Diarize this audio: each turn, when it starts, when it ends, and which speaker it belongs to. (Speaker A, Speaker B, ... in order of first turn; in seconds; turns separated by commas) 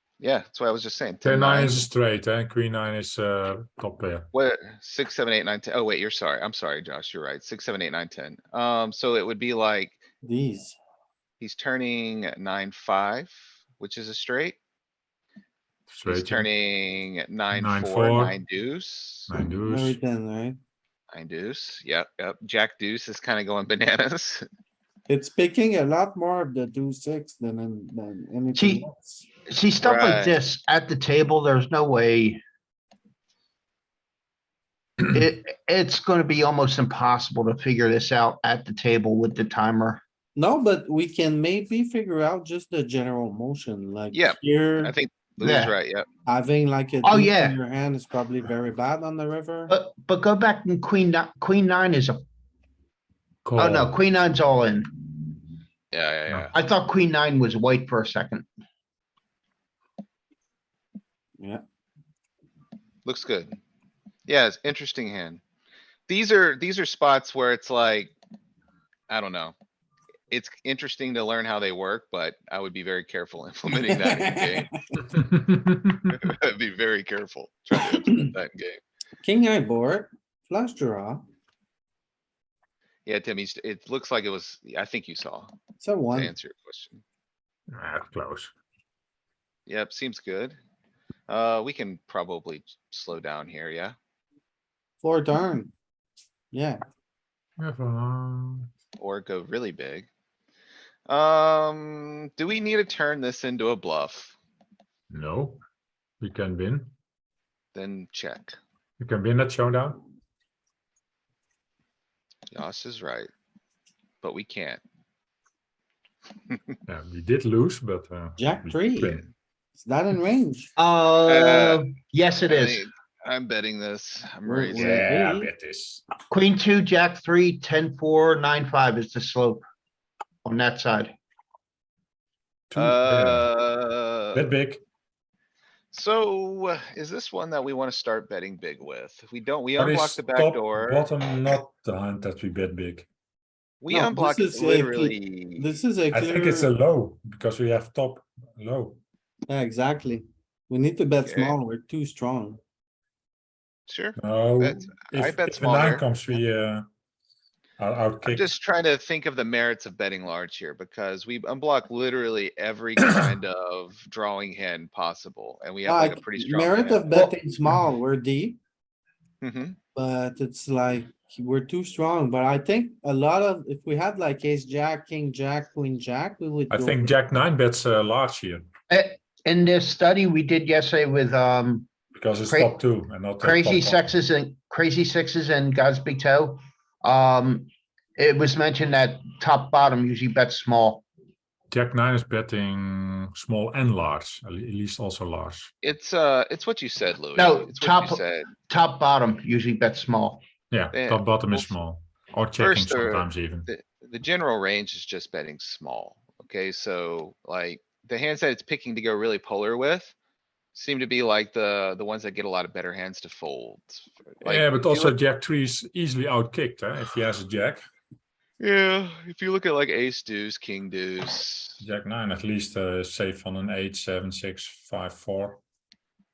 Speaker A: 0.2-1.9, Speaker B: 1.2-4.2, Speaker A: 4.3-10.0, Speaker C: 10.2-10.8, Speaker A: 11.4-14.6, Speaker B: 15.9-16.4, Speaker A: 16.1-19.3, Speaker B: 17.5-18.3, Speaker B: 19.3-19.9, Speaker C: 19.5-20.6, Speaker A: 21.1-24.4, Speaker C: 25.1-29.3, Speaker D: 28.5-28.8, Speaker D: 29.5-32.4, Speaker A: 29.8-30.4, Speaker D: 35.0-40.0, Speaker C: 40.3-44.9, Speaker A: 44.1-46.0, Speaker D: 45.4-45.7, Speaker C: 46.2-49.7, Speaker D: 47.0-47.6, Speaker D: 49.7-52.2, Speaker B: 53.5-53.9, Speaker D: 53.6-55.3, Speaker A: 55.9-56.5, Speaker D: 56.5-58.5, Speaker A: 63.0-63.6, Speaker A: 64.3-65.4, Speaker A: 66.1-68.1, Speaker A: 69.1-69.5, Speaker A: 70.3-74.7, Speaker C: 73.9-75.0, Speaker A: 76.0-78.8, Speaker C: 77.9-78.3, Speaker C: 79.2-81.2, Speaker A: 83.0-85.5, Speaker C: 85.8-86.3, Speaker A: 86.1-87.0, Speaker B: 87.7-88.5, Speaker A: 89.7-90.6, Speaker A: 91.3-94.0, Speaker C: 95.0-95.7, Speaker C: 96.5-96.8, Speaker B: 97.6-98.7, Speaker A: 99.0-100.1, Speaker A: 101.1-104.3, Speaker B: 105.1-105.6, Speaker B: 106.2-106.8, Speaker A: 107.7-108.6, Speaker B: 109.0-110.0, Speaker A: 112.5-113.3, Speaker A: 114.2-114.8, Speaker B: 116.9-119.2, Speaker C: 118.4-119.2, Speaker C: 119.7-120.7, Speaker D: 120.8-122.8, Speaker A: 121.2-121.8, Speaker A: 122.5-125.1, Speaker C: 124.5-125.5, Speaker B: 124.8-126.0, Speaker D: 126.3-129.6, Speaker D: 130.4-131.1, Speaker B: 132.7-133.4, Speaker A: 132.8-134.5, Speaker B: 134.3-134.8, Speaker A: 135.9-141.2, Speaker B: 139.8-143.1, Speaker A: 143.8-145.8, Speaker C: 143.9-146.7, Speaker B: 146.1-148.9, Speaker C: 149.5-152.6, Speaker A: 151.2-151.6, Speaker A: 153.9-156.4, Speaker B: 154.2-156.8, Speaker B: 157.8-158.4, Speaker A: 158.2-167.2, Speaker C: 165.8-168.6, Speaker D: 167.1-167.4, Speaker A: 169.4-169.8, Speaker C: 169.9-177.2, Speaker B: 176.7-178.6, Speaker D: 178.9-181.9, Speaker B: 182.2-184.0, Speaker D: 182.5-182.8, Speaker D: 183.4-191.0, Speaker B: 191.7-195.7, Speaker A: 195.8-198.5, Speaker D: 197.3-200.4, Speaker B: 200.7-203.6, Speaker A: 200.9-201.7, Speaker A: 202.6-210.1, Speaker A: 210.7-215.2, Speaker B: 214.4-217.8, Speaker A: 218.6-221.8, Speaker B: 221.8-225.6